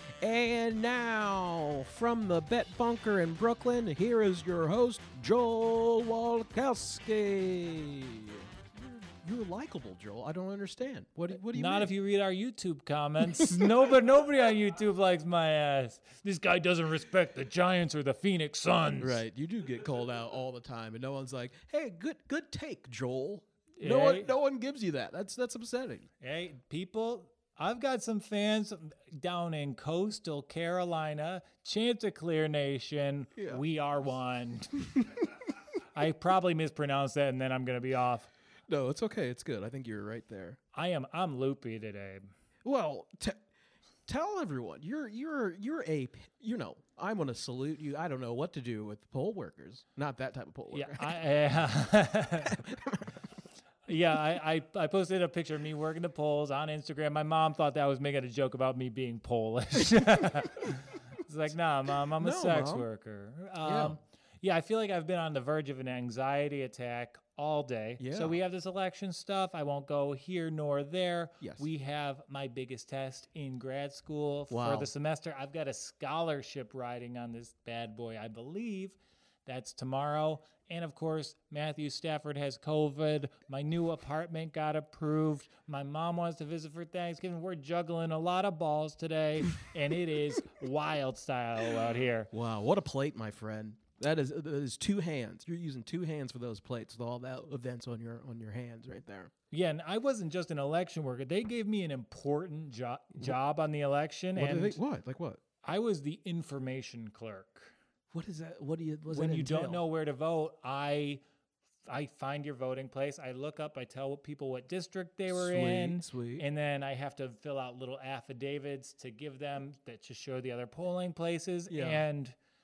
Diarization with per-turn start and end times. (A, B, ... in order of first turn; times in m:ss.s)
0:00.2-0:11.9 A
0:11.5-0:19.2 B
0:13.4-0:13.6 A
0:19.0-0:26.1 A
0:23.8-0:24.3 B
0:26.2-0:35.2 B
0:33.4-0:33.6 A
0:35.9-0:38.3 B
0:38.7-0:40.6 A
0:40.7-0:42.3 B
0:42.6-0:43.4 A
0:44.0-0:51.2 A
0:50.7-0:52.6 B
0:52.5-0:53.1 A
0:53.8-1:32.3 B
1:02.2-1:02.8 A
1:03.6-1:04.0 A
1:08.0-1:08.4 A
1:11.4-1:11.7 A
1:14.5-1:14.9 A
1:32.3-1:39.3 A
1:39.5-1:44.8 B
1:44.4-1:45.4 A
1:45.6-1:47.7 B
1:48.1-1:49.8 A
1:49.1-1:51.2 B
1:51.9-2:02.3 B
1:55.3-1:56.4 A
2:01.7-2:02.0 A